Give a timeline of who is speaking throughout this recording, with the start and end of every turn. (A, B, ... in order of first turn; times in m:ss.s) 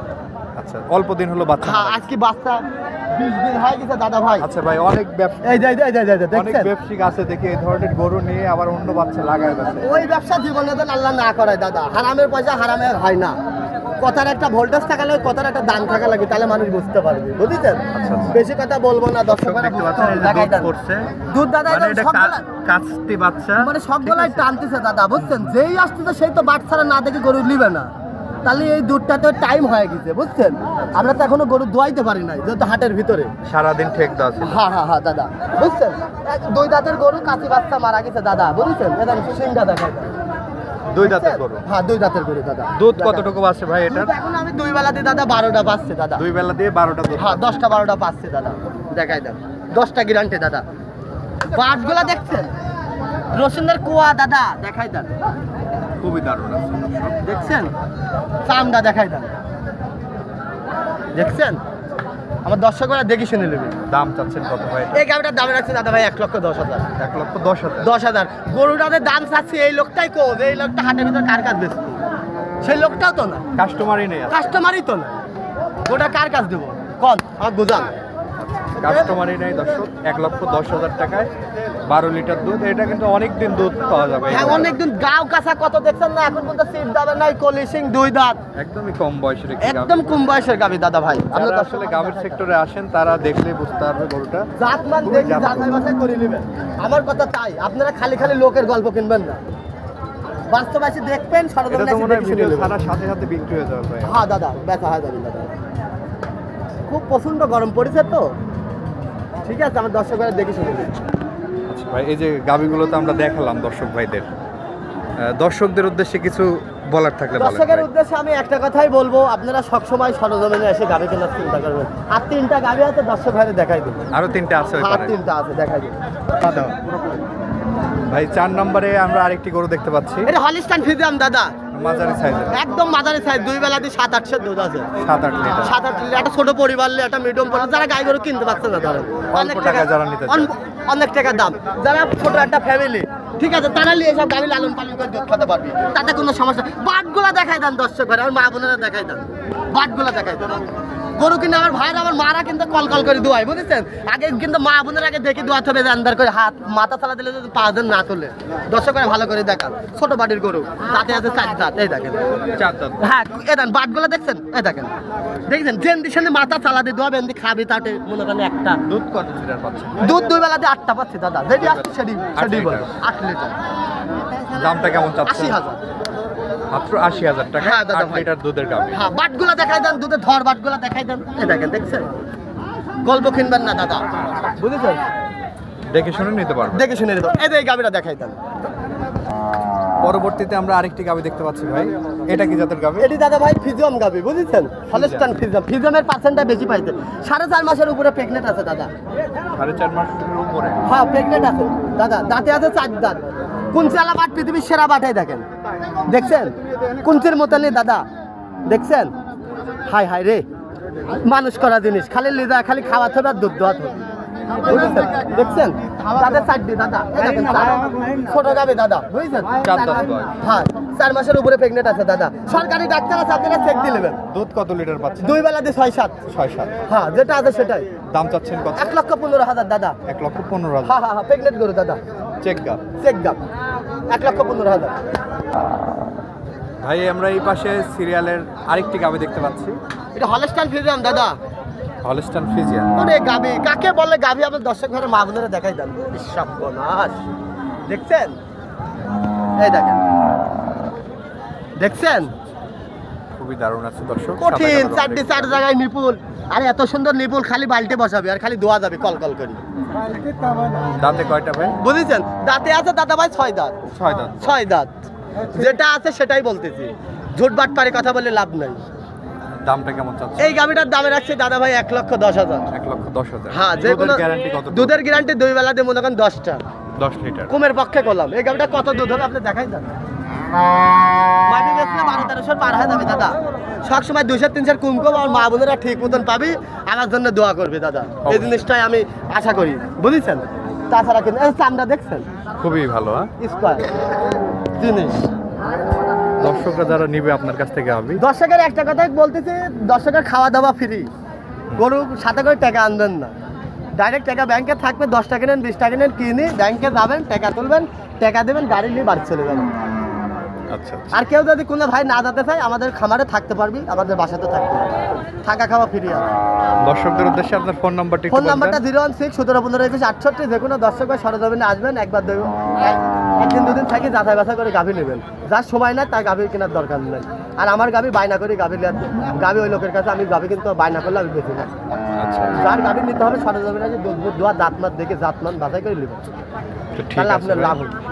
0:00.6-0:02.0 A
0:01.6-0:04.5 B
0:04.4-0:05.7 A
0:05.4-0:06.7 B
0:06.3-0:09.9 A
0:09.8-0:13.4 B
0:14.0-0:20.7 B
0:17.9-0:18.4 A
0:19.3-0:21.1 A
0:21.2-0:22.4 B
0:21.7-0:24.5 A
0:23.6-0:27.9 B
0:25.2-0:25.5 A
0:28.4-0:33.3 B
0:33.4-0:34.6 A
0:34.4-0:40.1 B
0:40.9-0:41.6 A
0:41.0-0:43.3 B
0:42.8-0:44.1 A
0:43.9-0:46.2 B
0:46.2-0:47.8 A
0:47.1-0:50.6 B
0:51.5-0:52.5 B
0:53.3-0:55.1 B
0:56.0-0:57.2 A
0:57.2-0:57.7 B
0:58.4-0:59.3 B
1:01.1-1:01.6 B
1:02.4-1:03.8 B
1:03.9-1:05.0 A
1:04.9-1:06.9 B
1:07.0-1:07.9 A
1:07.8-1:12.0 B
1:12.6-1:13.4 B
1:13.6-1:14.4 A
1:14.3-1:15.2 B
1:15.8-1:17.9 B
1:18.4-1:21.3 A
1:18.8-1:19.1 B
1:21.9-1:24.7 A
1:24.3-1:28.4 B
1:28.5-1:30.1 A
1:29.6-1:32.4 B
1:31.3-1:34.5 A
1:34.6-1:39.4 B
1:35.0-1:35.8 A
1:40.5-1:42.7 B
1:41.7-1:44.1 A
1:44.0-1:45.5 B
1:46.9-1:48.3 B
1:49.4-1:51.0 B
1:51.7-1:54.3 A
1:55.3-1:57.9 A
1:57.4-2:04.1 B
2:04.1-2:05.1 A
2:04.8-2:06.8 B
2:08.1-2:10.3 A
2:10.2-2:11.5 B
2:11.7-2:12.6 A
2:12.5-2:14.9 B
2:15.0-2:15.7 A
2:15.5-2:42.3 B
2:19.3-2:20.5 A
2:42.6-2:43.1 A
2:43.0-2:44.9 B
2:45.5-2:48.8 B
2:48.8-2:50.1 A
2:50.0-2:53.6 B
2:51.6-2:53.0 A
2:54.5-2:55.6 A
2:55.2-2:55.8 B
2:56.7-2:58.9 A
2:57.6-2:58.3 B
2:58.9-3:02.1 B
3:03.0-3:05.0 B
3:05.9-3:06.9 A
3:06.7-3:08.4 B
3:10.0-3:13.1 A
3:13.0-3:18.9 B
3:14.9-3:15.3 A
3:19.5-3:20.8 A
3:20.8-3:25.4 B
3:26.0-3:28.0 B
3:28.6-3:29.1 B
3:29.8-3:30.4 B
3:31.2-3:34.0 B
3:34.6-3:44.2 B
3:39.6-3:40.3 A
3:44.3-3:45.4 A
3:45.2-3:46.2 B
3:46.3-3:46.7 A
3:46.9-3:47.9 B
3:48.1-3:48.9 A
3:48.7-3:50.0 B
3:50.1-3:51.0 A
3:50.8-3:52.0 B
3:52.4-3:52.8 A
3:53.0-3:53.4 B
3:54.1-3:55.0 B
3:56.8-3:59.8 A
4:00.1-4:01.4 B
4:02.0-4:02.9 A
4:02.9-4:07.2 B
4:07.9-4:08.4 B
4:09.6-4:10.0 B
4:11.8-4:12.3 B
4:13.4-4:15.6 A
4:14.4-4:19.6 B
4:20.9-4:21.8 A
4:21.8-4:23.8 B
4:23.9-4:24.6 A
4:24.4-4:24.9 B
4:25.5-4:28.8 B
4:29.6-4:30.6 A
4:30.4-4:32.7 B
4:32.7-4:35.0 A
4:33.5-4:36.6 B
4:37.0-4:37.5 A
4:37.5-4:39.9 B
4:41.4-4:52.3 B
4:48.2-4:48.6 A
4:52.6-4:53.3 A
4:53.4-4:53.9 B
4:54.8-4:55.3 B
4:56.4-4:58.2 A
4:58.2-5:01.1 B
5:01.7-5:03.3 B
5:04.0-5:09.7 B
5:10.7-5:11.2 A
5:11.1-5:16.3 B
5:16.8-5:18.8 A
5:18.3-5:31.7 B
5:32.2-5:32.6 A
5:32.6-5:36.4 B
5:36.9-5:37.8 A
5:37.1-5:38.0 B